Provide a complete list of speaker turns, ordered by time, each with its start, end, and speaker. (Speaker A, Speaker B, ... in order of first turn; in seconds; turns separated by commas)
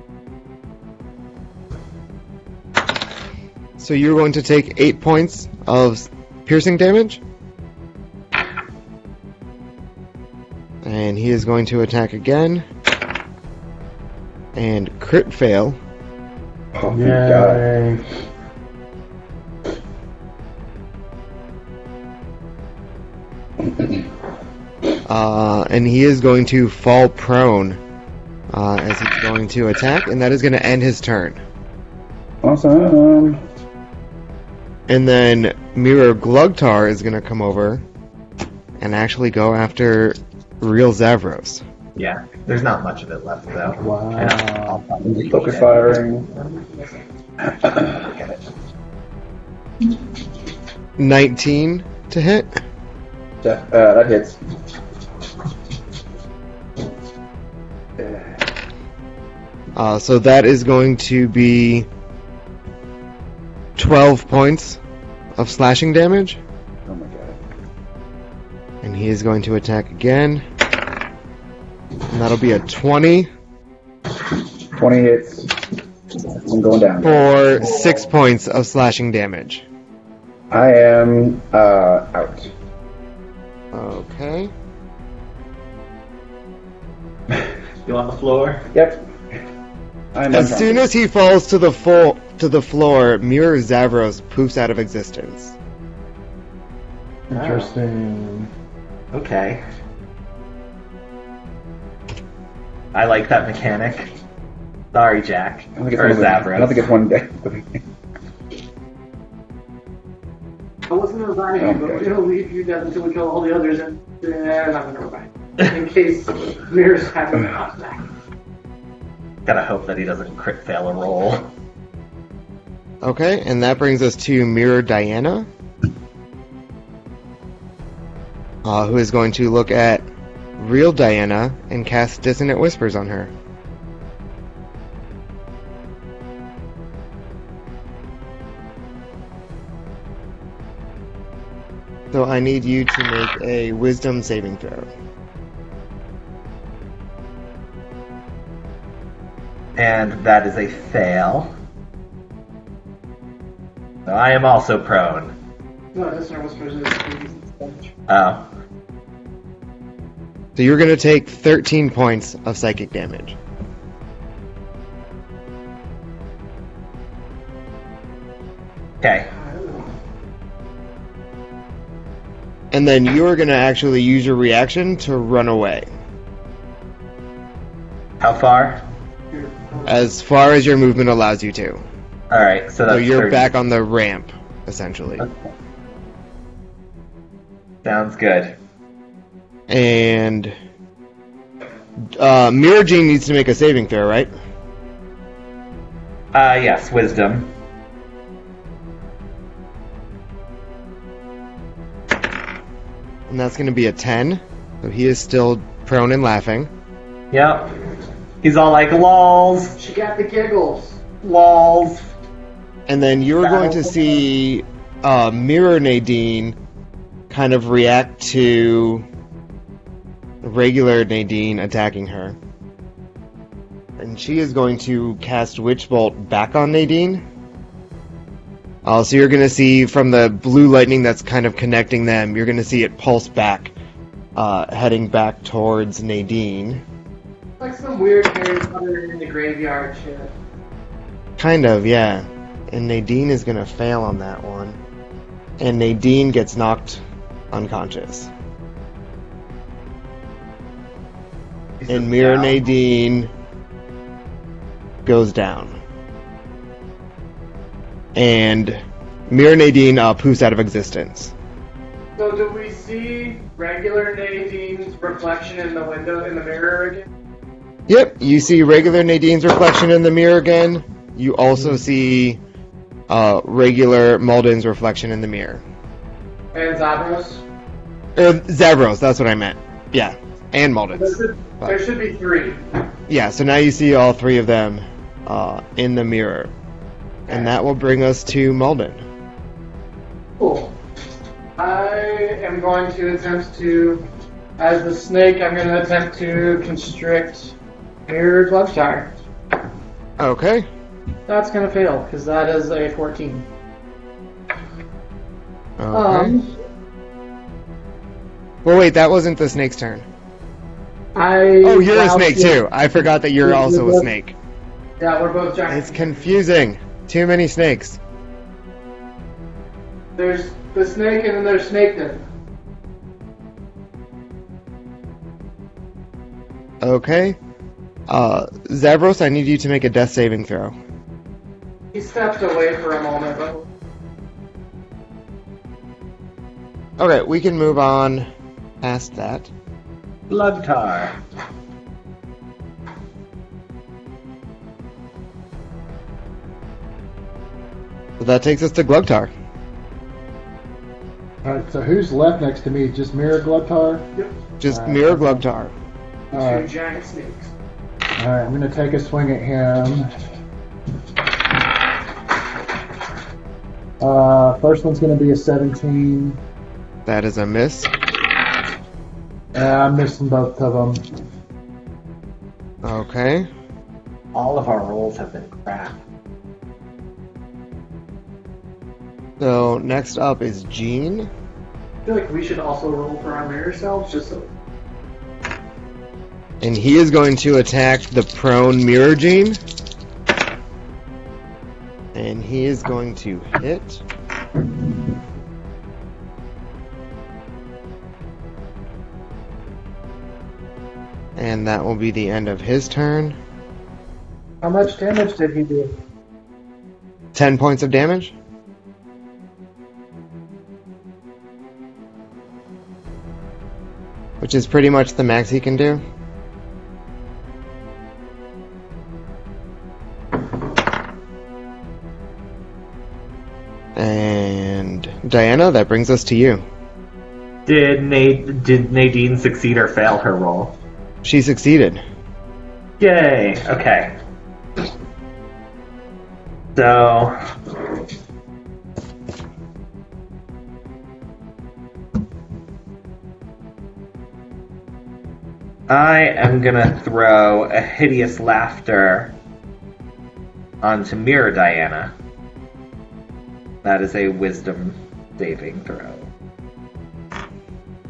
Speaker A: 3.8-7.2, Speaker A: 10.8-12.7, Speaker A: 14.5-15.8, Speaker B: 16.7-17.6, Speaker C: 16.9-18.0, Speaker A: 25.0-27.8, Speaker A: 28.5-31.4, Speaker B: 32.4-33.4, Speaker A: 34.9-37.8, Speaker A: 38.8-41.6, Speaker D: 42.0-46.0, Speaker C: 43.8-44.8, Speaker B: 45.0-46.3, Speaker E: 46.2-47.0, Speaker D: 47.8-48.4, Speaker A: 51.0-52.6, Speaker B: 53.4-54.4, Speaker B: 58.0-58.4, Speaker A: 59.8-61.9, Speaker A: 63.8-64.8, Speaker A: 65.4-66.4, Speaker B: 66.8-67.4, Speaker A: 68.8-70.4, Speaker A: 72.1-73.3, Speaker B: 74.7-75.6, Speaker B: 76.4-77.3, Speaker A: 77.0-79.6, Speaker B: 80.5-82.5, Speaker A: 83.7-84.5, Speaker D: 87.8-88.7, Speaker B: 88.7-89.0, Speaker B: 90.1-90.8, Speaker A: 90.3-95.5, Speaker C: 97.3-98.5, Speaker D: 97.3-97.7, Speaker D: 99.1-99.6, Speaker D: 102.9-104.1, Speaker D: 104.9-106.9, Speaker B: 105.8-107.8, Speaker E: 110.9-118.1, Speaker B: 111.6-112.1, Speaker D: 119.5-121.5, Speaker A: 123.0-125.5, Speaker A: 128.6-130.1, Speaker A: 130.6-133.3, Speaker A: 142.1-144.9, Speaker D: 149.8-151.5, Speaker D: 154.1-155.3, Speaker E: 155.9-157.9, Speaker D: 158.1-158.4, Speaker A: 160.6-163.3, Speaker D: 169.0-169.3, Speaker E: 169.4-169.8, Speaker A: 172.7-175.9, Speaker D: 178.2-178.8, Speaker E: 179.3-179.9, Speaker A: 179.8-181.8, Speaker D: 182.3-183.5, Speaker A: 182.9-185.2, Speaker D: 187.8-188.6, Speaker A: 189.7-190.5, Speaker A: 192.1-194.3, Speaker D: 196.3-197.5, Speaker A: 203.3-206.7, Speaker D: 207.3-207.8, Speaker D: 208.4-209.8, Speaker E: 209.8-211.0, Speaker D: 211.2-212.1, Speaker A: 212.9-216.6, Speaker D: 213.4-214.2, Speaker A: 217.3-219.1, Speaker A: 220.4-222.4, Speaker A: 224.0-227.2, Speaker A: 228.8-233.7, Speaker A: 234.3-236.8, Speaker E: 237.6-240.3, Speaker A: 241.4-244.8, Speaker A: 245.6-248.3, Speaker D: 251.8-252.6, Speaker A: 251.9-253.3, Speaker A: 255.0-255.8, Speaker A: 258.1-261.3, Speaker E: 262.2-267.1, Speaker A: 267.9-272.4, Speaker A: 273.1-275.6, Speaker E: 276.5-277.4, Speaker A: 278.1-281.8, Speaker E: 280.9-282.6, Speaker A: 283.1-286.5, Speaker A: 287.3-289.0, Speaker E: 290.4-290.7, Speaker E: 291.6-294.0, Speaker E: 294.6-297.5, Speaker E: 298.1-299.1, Speaker A: 300.2-300.6, Speaker E: 301.3-303.4, Speaker A: 305.8-306.4, Speaker E: 305.9-306.5, Speaker A: 308.6-310.0, Speaker E: 311.1-312.6, Speaker A: 311.6-314.4, Speaker E: 313.4-314.1, Speaker E: 315.0-316.3, Speaker A: 315.7-318.0, Speaker E: 320.2-322.2, Speaker A: 326.8-327.4, Speaker A: 328.1-330.7, Speaker E: 331.9-333.6, Speaker A: 337.0-338.3, Speaker A: 338.8-339.5, Speaker D: 340.3-341.2, Speaker A: 348.2-349.3, Speaker C: 351.4-354.1, Speaker A: 354.6-355.7, Speaker C: 354.7-355.4, Speaker E: 356.3-357.5, Speaker C: 356.3-356.7, Speaker C: 358.1-360.1, Speaker C: 364.0-366.4, Speaker A: 367.1-367.9, Speaker C: 369.5-371.0, Speaker A: 372.8-373.5, Speaker D: 374.3-375.9, Speaker A: 379.4-381.3, Speaker E: 382.1-384.5, Speaker A: 386.6-389.6, Speaker A: 392.1-394.0, Speaker A: 401.4-403.4, Speaker E: 404.6-405.9, Speaker A: 407.3-408.3, Speaker A: 414.4-416.0, Speaker A: 423.9-426.6, Speaker D: 427.6-430.7, Speaker A: 431.2-432.0, Speaker D: 433.0-434.1, Speaker D: 436.7-437.4, Speaker D: 445.9-449.3, Speaker D: 450.8-452.1, Speaker D: 453.8-456.3